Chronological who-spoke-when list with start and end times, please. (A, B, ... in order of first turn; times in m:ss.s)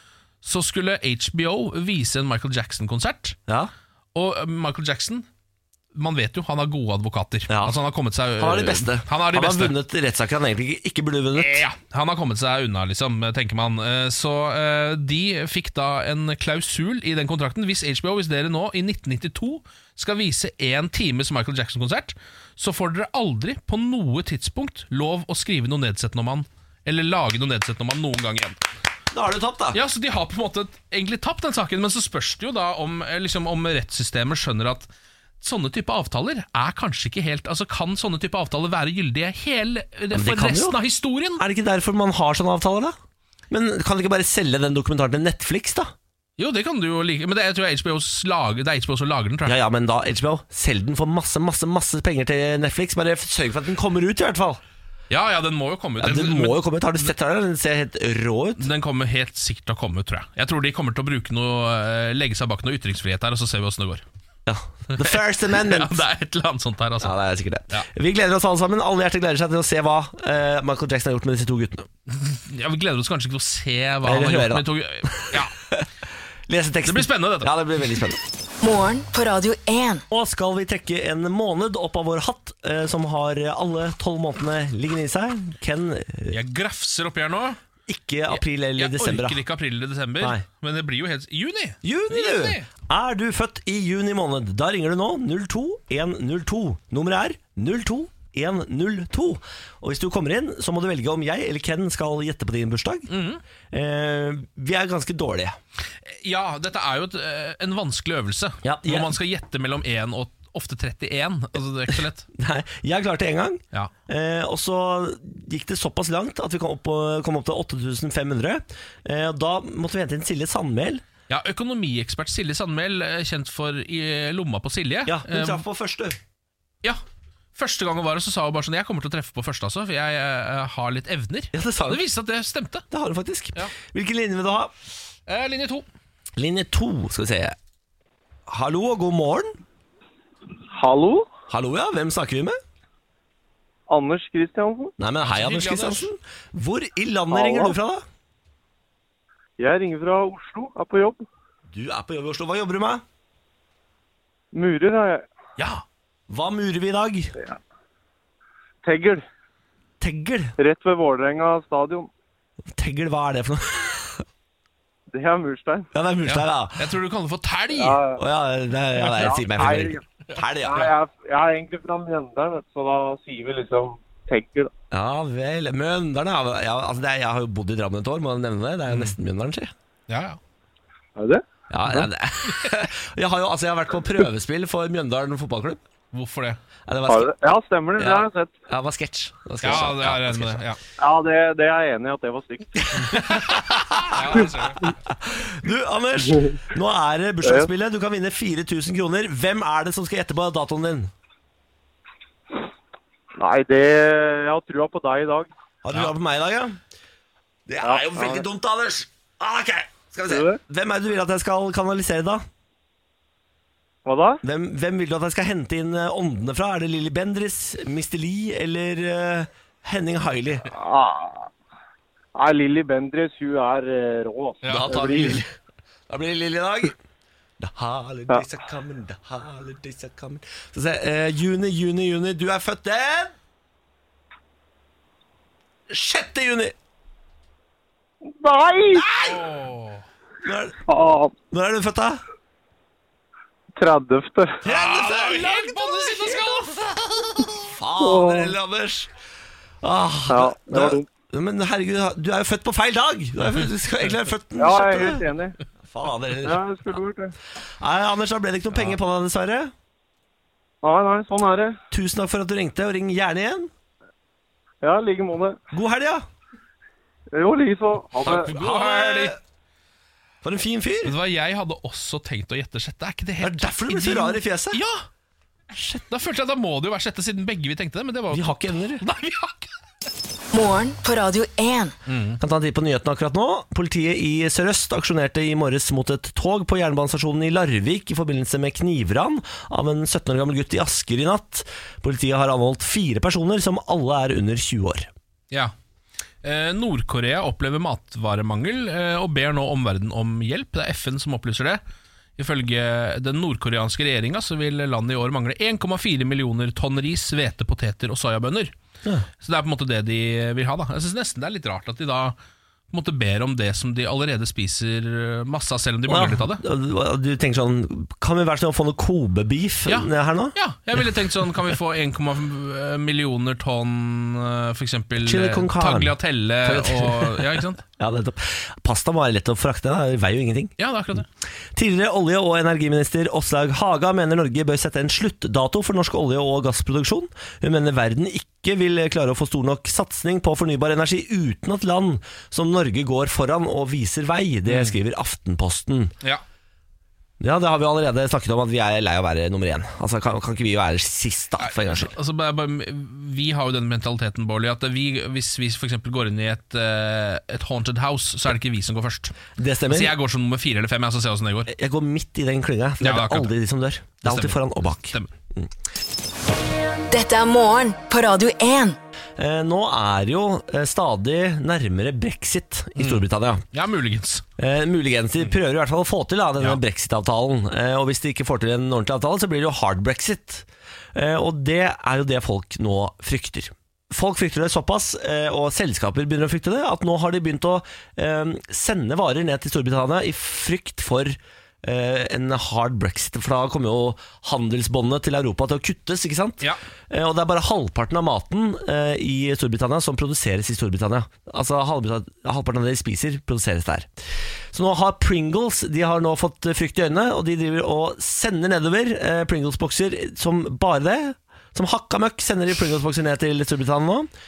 0:00.4-0:03.4 A
0:04.1-0:05.2 A
0:05.9-0:09.7 A
0:07.5-0:07.8 B
0:08.4-0:11.6 B
0:11.4-0:28.6 A
0:29.1-0:29.8 B
0:29.7-0:34.9 A
0:35.4-0:41.4 A
0:40.1-0:40.8 B
0:41.4-0:42.9 B
0:43.5-0:45.9 B
0:46.4-0:49.5 A
0:49.4-0:54.6 B
0:55.1-0:57.1 A
0:56.0-0:58.7 B
0:58.6-1:04.0 A
1:04.4-1:06.0 B
1:04.9-1:07.1 A
1:07.0-1:11.9 B
1:12.1-1:15.5 A
1:14.0-1:15.8 B
1:16.5-1:18.2 B
1:16.8-1:17.5 A
1:18.6-1:20.0 C
1:20.1-1:26.4 B
1:26.3-1:27.6 A
1:27.9-1:29.4 B
1:28.3-1:32.7 A
1:31.8-1:43.1 B
1:43.1-1:43.4 A
1:43.7-1:45.6 B
1:46.1-1:52.3 A
1:48.6-1:49.1 B
1:52.3-2:01.0 B
2:01.3-2:05.6 A
2:05.1-2:06.2 B
2:07.5-2:12.8 A
2:11.5-2:12.0 B
2:12.9-2:14.7 B
2:15.3-2:15.8 A
2:16.4-2:17.6 B
2:18.5-2:19.6 B
2:20.7-2:21.3 D
2:21.5-2:22.6 B
2:23.9-2:24.9 D
2:25.0-2:28.0 B
2:25.2-2:26.1 A
2:27.3-2:27.8 D
2:29.6-2:31.2 D
2:31.7-2:33.0 B
2:34.5-2:35.2 D
2:35.6-2:35.8 A
2:36.3-2:37.3 B
2:38.8-2:39.2 D
2:40.0-2:40.5 B
2:40.6-2:42.1 D
2:42.7-2:44.2 B
2:45.1-2:45.9 D
2:45.9-2:46.9 B
2:46.2-2:48.0 A
2:47.7-2:48.2 D
2:48.2-2:50.9 B
2:49.0-2:50.0 D
2:50.6-2:54.7 D
2:54.9-2:59.7 B
2:58.9-2:59.2 A
3:00.1-3:00.4 A
3:01.2-3:01.4 D
3:01.7-3:05.8 B
3:06.1-3:06.6 A
3:06.9-3:07.3 B
3:07.1-3:08.5 D
3:08.0-3:10.6 B
3:09.6-3:10.8 A
3:11.0-3:13.4 D
3:12.8-3:14.5 B
3:14.1-3:14.9 A
3:14.2-3:14.9 D
3:15.0-3:21.1 B
3:16.3-3:16.6 D
3:23.4-3:25.5 D
3:25.8-3:26.8 B
3:27.7-3:32.4 B
3:27.8-3:28.4 D
3:30.3-3:30.6 D
3:34.0-3:34.4 D
3:34.4-3:40.7 B
3:40.7-3:41.5 D
3:42.4-3:45.4 D
3:44.6-3:44.9 A
3:44.7-3:45.5 B
3:46.1-3:47.0 B
3:47.6-3:53.3 B
3:55.9-3:56.7 B
3:58.2-3:59.1 D
3:58.9-3:59.4 B
3:59.2-4:00.0 A
4:00.4-4:00.8 B
4:00.9-4:01.3 D
4:01.5-4:02.2 B
4:03.8-4:04.6 D
4:04.6-4:06.6 B
4:04.6-4:07.6 A
4:07.6-4:09.1 B
4:08.0-4:08.5 D
4:09.8-4:15.2 B
4:10.3-4:11.0 D
4:14.6-4:15.6 D
4:15.9-4:16.6 B
4:16.4-4:17.3 D
4:17.8-4:19.7 B
4:20.8-4:21.8 D
4:21.9-4:23.7 B
4:24.8-4:25.6 D
4:25.7-4:26.2 B
4:27.3-4:28.5 D
4:28.2-4:29.3 A
4:28.3-4:29.4 B
4:30.4-4:31.1 B
4:31.0-4:35.0 A
4:33.4-4:34.8 B
4:35.9-4:39.7 A
4:38.3-4:39.0 B
4:40.5-4:41.9 C
4:42.1-4:42.4 A
4:42.4-4:55.1 B
4:56.4-5:01.8 A
5:02.4-5:08.7 A
5:09.4-5:12.4 A
5:12.9-5:16.6 A
5:16.1-5:20.5 B
5:19.9-5:27.8 A
5:25.2-5:30.7 B
5:30.8-5:31.2 A
5:31.7-5:46.1 B
5:44.6-5:45.0 A
5:47.4-5:52.1 B
5:51.6-6:01.7 A
5:59.6-6:00.1 B
6:01.7-6:05.7 B
6:03.0-6:03.5 A
6:04.2-6:05.3 A
6:07.1-6:09.0 C
6:09.4-6:13.6 B
6:13.0-6:14.4 A
6:14.6-6:44.1 B
6:44.7-6:54.3 B